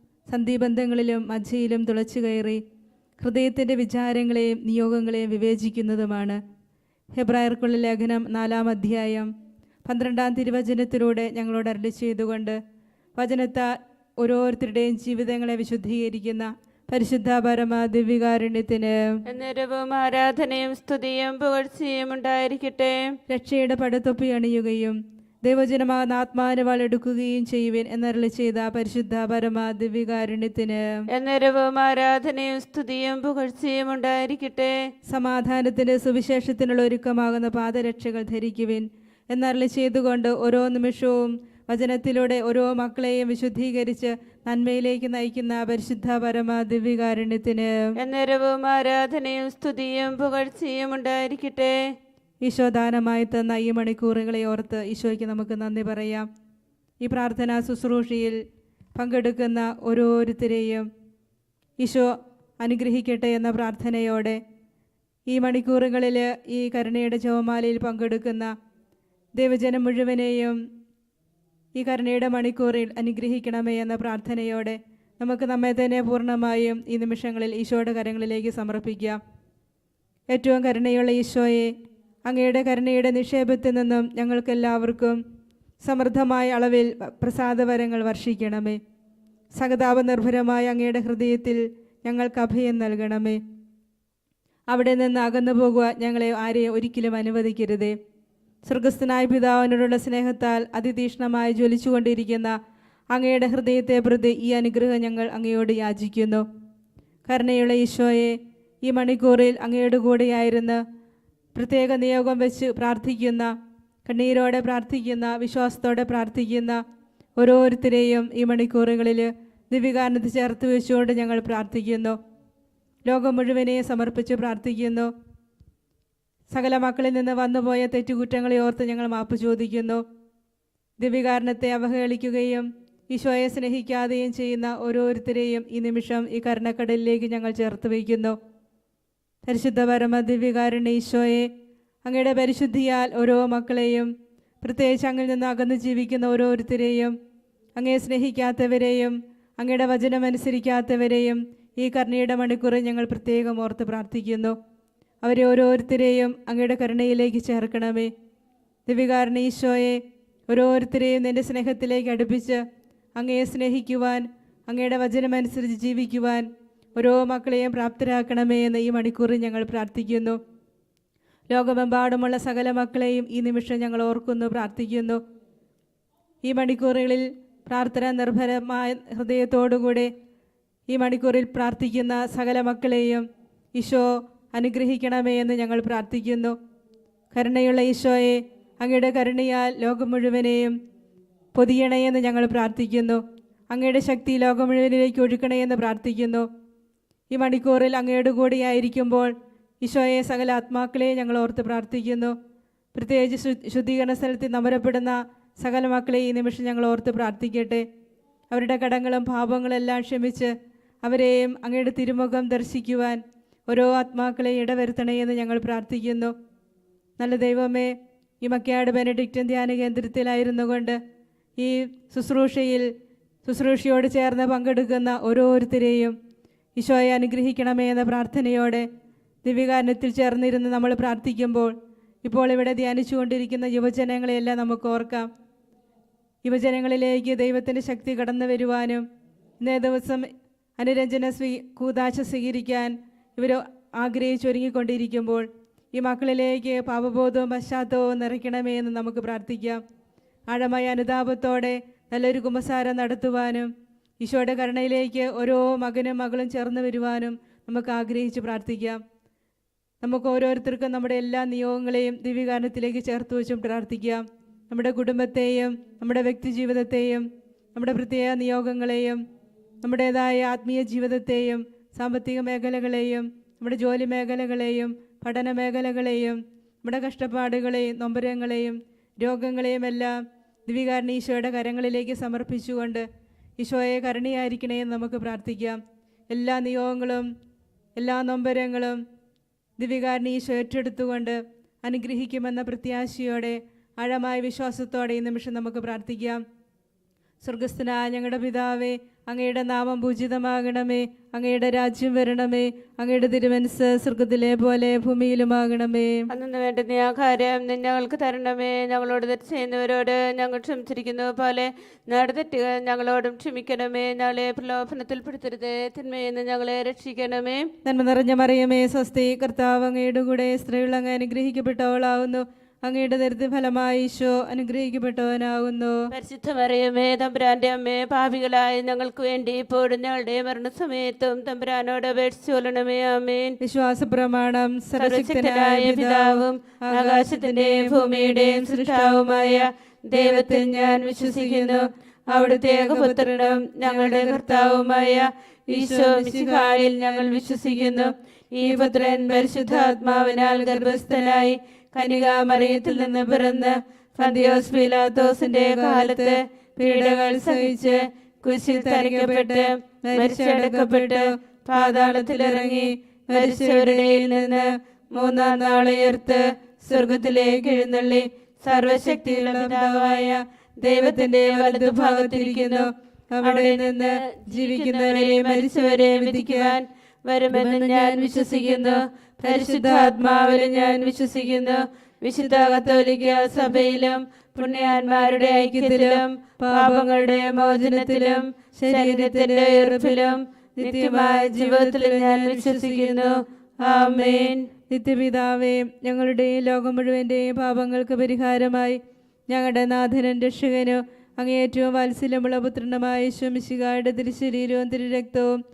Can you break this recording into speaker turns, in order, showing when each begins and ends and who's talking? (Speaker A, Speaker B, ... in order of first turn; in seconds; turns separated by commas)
Speaker A: 0.3-2.6, Speaker A: 3.2-6.4, Speaker A: 7.2-9.3, Speaker A: 9.8-12.6, Speaker A: 13.2-19.0, Speaker B: 19.3-23.0, Speaker A: 23.3-30.9, Speaker B: 31.1-34.8, Speaker A: 35.1-47.8, Speaker B: 48.0-51.8, Speaker A: 52.4-56.3, Speaker A: 57.0-58.4, Speaker A: 59.0-60.9, Speaker A: 61.8-64.4, Speaker A: 65.3-68.5, Speaker A: 69.4-70.6, Speaker A: 71.8-79.2, Speaker A: 80.3-81.7, Speaker A: 82.2-85.2, Speaker A: 85.8-88.8, Speaker A: 89.6-93.4, Speaker A: 94.7-98.0, Speaker A: 98.7-102.5, Speaker A: 103.1-106.4, Speaker A: 107.3-110.8, Speaker A: 111.5-113.5, Speaker A: 114.1-116.8, Speaker A: 117.4-122.2, Speaker A: 123.1-125.1, Speaker A: 126.5-130.0, Speaker A: 131.0-138.4, Speaker A: 139.5-141.5, Speaker A: 142.1-144.1, Speaker A: 144.6-147.1, Speaker A: 147.8-154.6, Speaker A: 155.2-158.1, Speaker A: 158.9-162.6, Speaker A: 163.2-170.4, Speaker A: 171.5-175.2, Speaker A: 176.4-180.1, Speaker A: 180.9-186.6, Speaker A: 187.3-190.8, Speaker A: 191.6-196.5, Speaker A: 197.3-202.3, Speaker A: 202.9-207.8, Speaker A: 208.5-210.5, Speaker A: 211.0-216.3, Speaker A: 217.2-221.0, Speaker A: 221.6-222.9, Speaker A: 223.4-226.1, Speaker A: 226.8-228.9, Speaker A: 229.4-231.7, Speaker A: 232.2-235.3, Speaker A: 236.4-239.0, Speaker A: 239.6-249.8, Speaker A: 250.5-253.7, Speaker A: 254.2-259.0, Speaker A: 260.0-269.2, Speaker A: 269.8-283.1, Speaker A: 283.6-285.8, Speaker A: 286.3-287.3, Speaker A: 288.0-289.0, Speaker A: 289.8-296.4, Speaker A: 297.4-306.3, Speaker B: 306.3-317.7, Speaker A: 317.8-326.0, Speaker B: 326.1-333.6, Speaker A: 333.6-345.2, Speaker B: 335.0-372.9, Speaker A: 345.7-351.5, Speaker A: 352.1-358.1, Speaker A: 358.6-376.8, Speaker B: 373.4-394.7, Speaker A: 377.5-381.8, Speaker A: 382.3-383.8, Speaker A: 384.6-405.6